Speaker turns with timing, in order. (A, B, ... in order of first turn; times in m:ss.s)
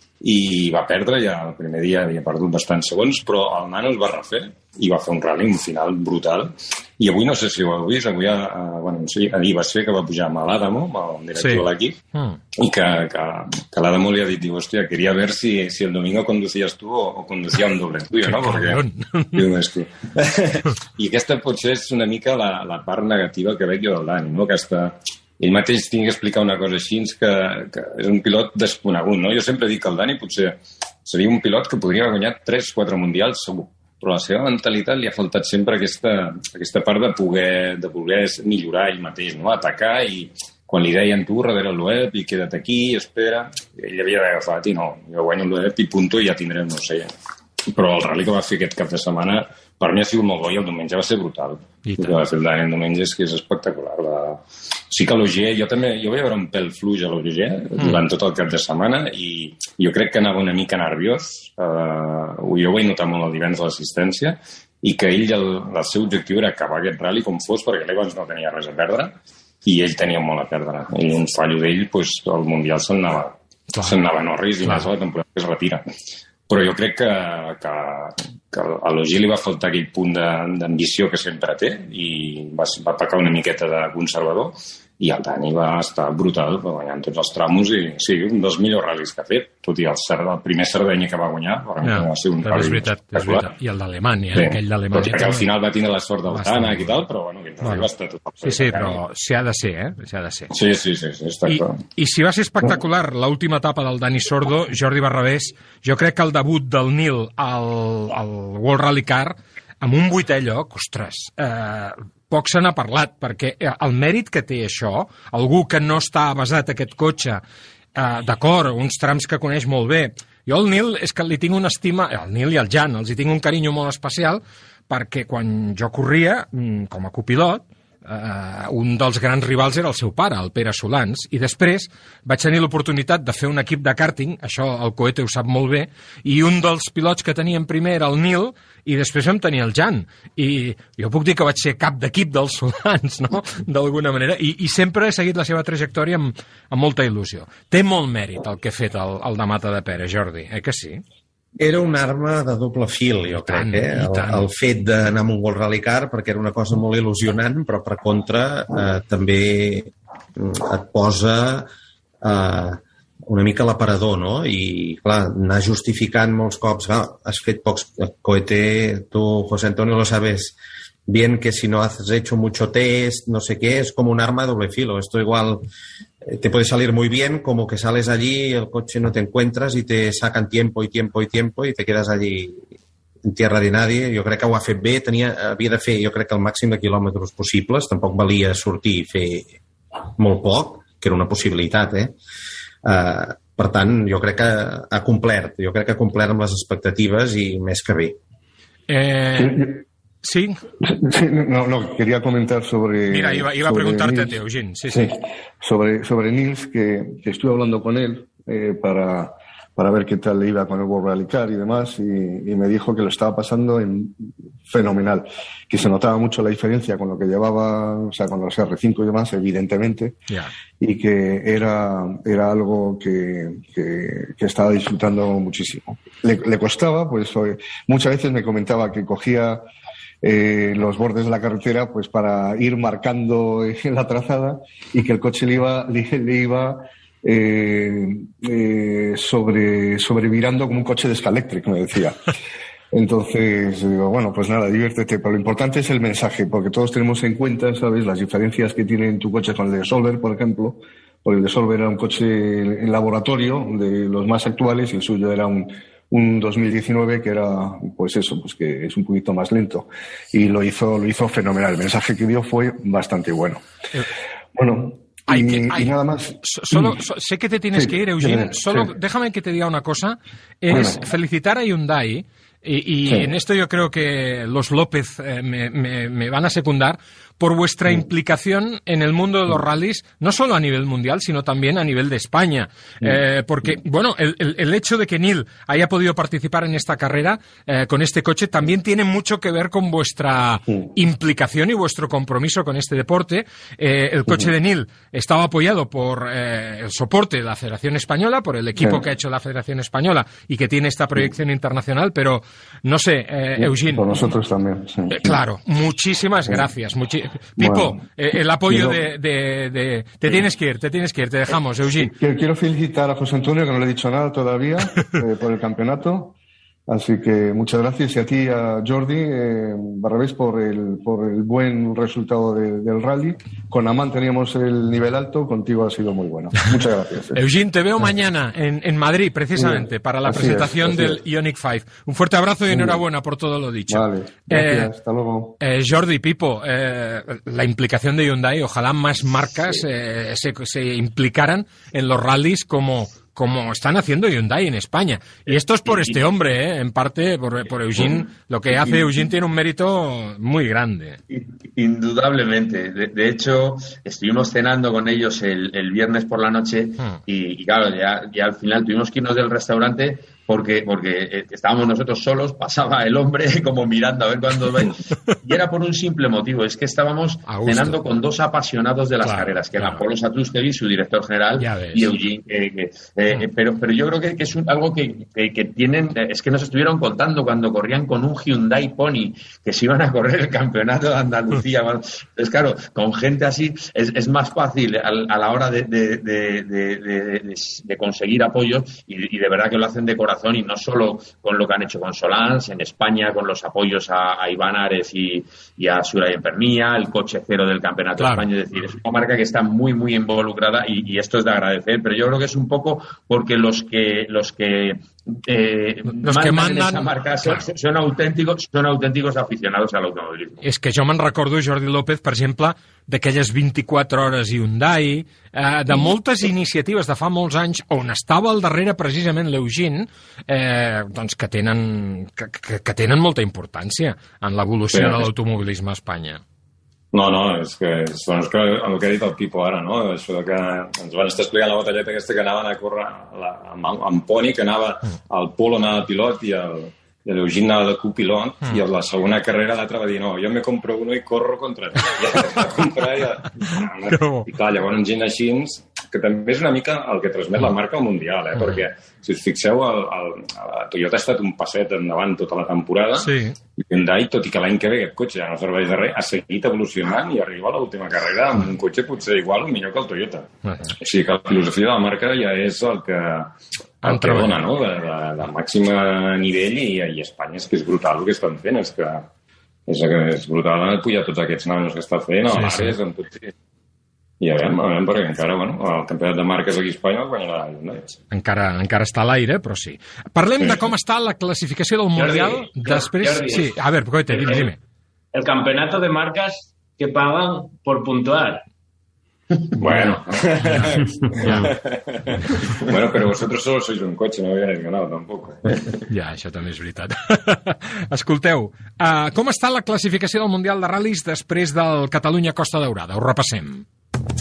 0:00.2-0:12.0 A
0:11.4-0:12.4 B
0:12.6-0:18.8 A
0:18.2-0:19.4 B
0:19.3-0:47.1 A
0:47.7-1:15.8 A
0:51.9-0:52.2 B
1:13.7-1:14.0 B
1:14.6-1:14.9 B
1:16.5-1:33.5 A
1:31.8-1:35.5 B
1:34.3-1:39.0 A
1:36.3-1:36.9 B
1:37.6-1:37.9 B
1:38.4-1:40.5 B
1:40.5-1:41.8 A
1:41.5-1:57.4 B
1:58.0-2:31.0 B
2:31.6-2:41.7 C
2:33.4-2:34.5 B
2:42.2-2:50.6 C
2:51.1-2:55.7 C
2:56.2-3:02.6 C
3:03.2-3:09.5 C
3:10.2-3:12.2 C
3:12.8-3:18.2 C
3:18.9-3:19.7 B
3:19.4-3:19.8 D
3:20.2-3:20.6 B
3:20.8-3:40.2 D
3:23.1-3:25.1 B
3:40.8-3:49.6 D
3:50.2-4:02.3 D
4:02.9-4:23.6 D
4:24.6-4:27.0 D
4:25.3-5:04.1 B
4:27.7-4:28.9 D
4:30.7-4:31.0 D
5:03.6-5:05.4 D
5:05.1-5:12.1 B
5:07.6-5:08.0 D
5:08.7-5:09.0 D
5:12.0-5:16.4 D
5:16.9-5:27.4 D
5:27.3-5:34.9 B
5:29.5-5:31.2 D
5:32.7-5:33.0 D
5:33.9-5:35.6 D
5:35.6-5:51.2 B
5:45.9-5:46.2 E
5:51.3-6:50.6 E
6:07.5-6:08.0 B
6:09.2-6:10.0 B
6:11.6-6:12.1 B
6:38.2-6:38.5 B
6:46.1-6:47.7 B
6:50.6-7:06.4 B
7:04.9-7:05.2 A
7:07.1-7:40.5 A
7:24.1-7:24.5 B
7:33.2-7:33.6 B
7:41.0-7:49.3 A
7:44.0-7:44.6 B
7:49.9-7:53.5 A
7:52.5-7:53.0 B
7:54.4-7:58.2 A
7:58.3-8:04.8 B
8:02.2-8:03.7 F
8:04.3-8:04.7 F
8:05.3-8:08.6 F
8:09.8-8:15.7 A
8:09.8-8:11.7 B
8:16.1-8:23.8 B